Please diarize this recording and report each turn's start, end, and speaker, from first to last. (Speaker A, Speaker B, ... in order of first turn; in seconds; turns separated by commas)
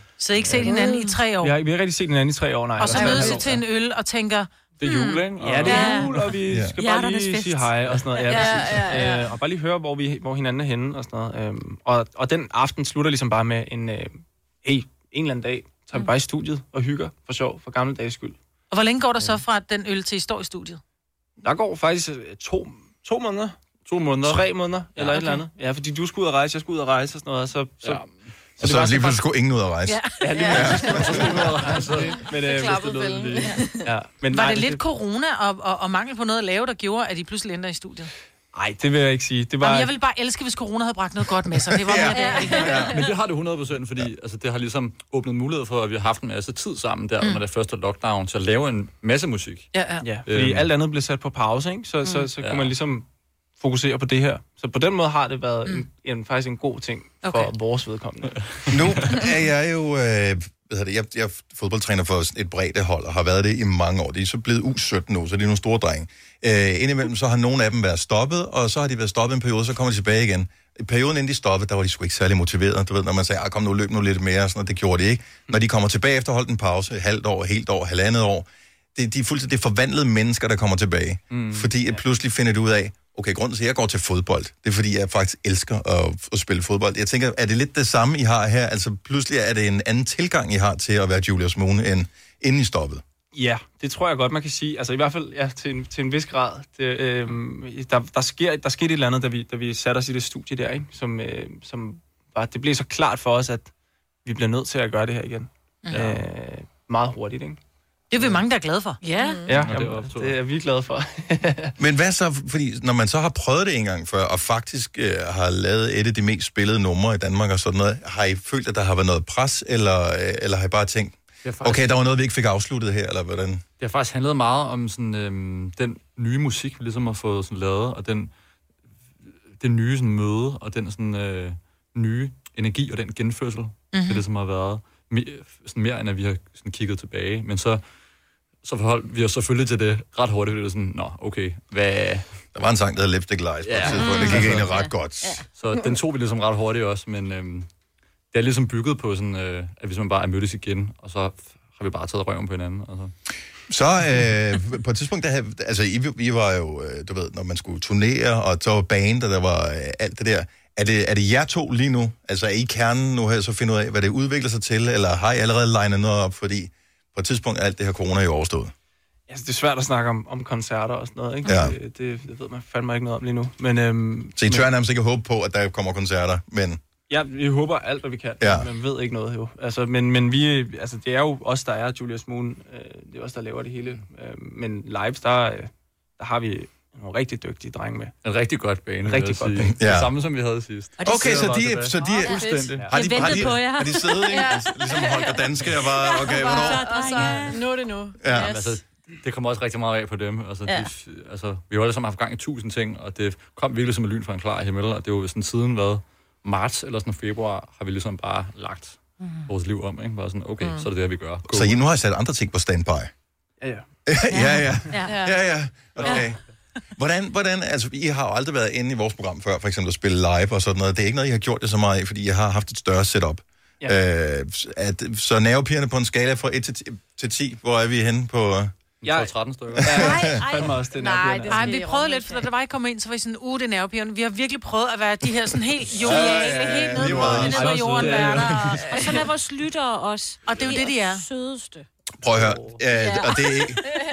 Speaker A: 0.2-1.6, Speaker B: 0.7-1.0, Speaker C: 0.7-1.0, Speaker D: 1.4-3.6, Speaker A: 2.8-5.2, Speaker C: 3.0-3.3, Speaker E: 3.0-3.4, Speaker E: 4.8-6.2, Speaker D: 5.3-18.4, Speaker B: 5.7-6.1, Speaker A: 5.8-6.1, Speaker F: 6.4-6.7, Speaker A: 6.9-7.2, Speaker B: 7.3-7.6, Speaker C: 8.3-9.3, Speaker A: 18.7-20.8, Speaker D: 21.4-23.6, Speaker E: 23.8-25.3, Speaker D: 24.2-28.0, Speaker E: 27.8-28.9, Speaker D: 28.6-29.2, Speaker F: 28.6-31.4, Speaker D: 30.2-33.3, Speaker C: 30.3-31.3, Speaker E: 30.4-33.5, Speaker C: 32.0-33.9, Speaker D: 33.8-34.8, Speaker A: 34.3-38.1, Speaker D: 38.5-39.9, Speaker A: 39.6-42.9, Speaker F: 41.7-43.0, Speaker B: 42.1-43.1, Speaker E: 42.9-50.7, Speaker A: 49.8-50.0, Speaker D: 50.0-53.0, Speaker E: 52.4-52.8, Speaker D: 53.6-58.4, Speaker A: 57.2-57.5, Speaker F: 58.7-93.0, Speaker E: 81.3-81.7, Speaker D: 93.3-103.7, Speaker D: 104.2-107.6, Speaker E: 105.9-106.2, Speaker A: 108.1-109.0, Speaker D: 108.1-108.4, Speaker B: 109.0-109.4, Speaker C: 109.0-109.7, Speaker D: 109.5-111.7, Speaker E: 109.5-110.4, Speaker F: 111.8-123.6, Speaker E: 121.4-121.9, Speaker E: 123.8-128.3, Speaker E: 129.6-137.8, Speaker A: 133.9-134.2, Speaker E: 138.6-142.2, Speaker F: 142.5-145.4, Speaker E: 143.6-144.7, Speaker C: 144.0-144.3, Speaker B: 144.0-145.3, Speaker E: 145.4-147.7, Speaker E: 148.3-153.1, Speaker F: 153.7-168.7, Speaker D: 169.3-174.7, Speaker F: 171.4-171.8, Speaker F: 174.4-176.8, Speaker D: 177.1-188.1, Speaker F: 178.4-178.7, Speaker E: 188.2-193.4, Speaker D: 189.1-189.8, Speaker F: 189.6-190.1, Speaker F: 191.0-197.3, Speaker B: 191.0-191.5, Speaker B: 192.0-194.4, Speaker C: 192.2-192.8, Speaker C: 194.2-198.8, Speaker B: 196.1-197.6, Speaker F: 198.2-198.6, Speaker E: 198.3-211.8, Speaker C: 210.6-210.9, Speaker F: 211.5-213.1, Speaker D: 213.6-213.8, Speaker F: 214.1-216.4, Speaker B: 214.3-215.1, Speaker C: 215.1-215.4, Speaker F: 217.0-228.7, Speaker D: 229.0-231.6, Speaker E: 229.0-230.7, Speaker F: 229.8-230.4, Speaker C: 230.2-232.4, Speaker B: 230.3-230.6, Speaker B: 231.3-231.8, Speaker A: 231.5-239.2, Speaker B: 236.0-241.9, Speaker F: 236.0-237.7, Speaker D: 237.0-238.5, Speaker E: 238.2-238.6, Speaker C: 238.8-239.2, Speaker A: 240.4-241.2, Speaker F: 242.2-243.9, Speaker D: 242.3-242.8, Speaker B: 242.9-244.0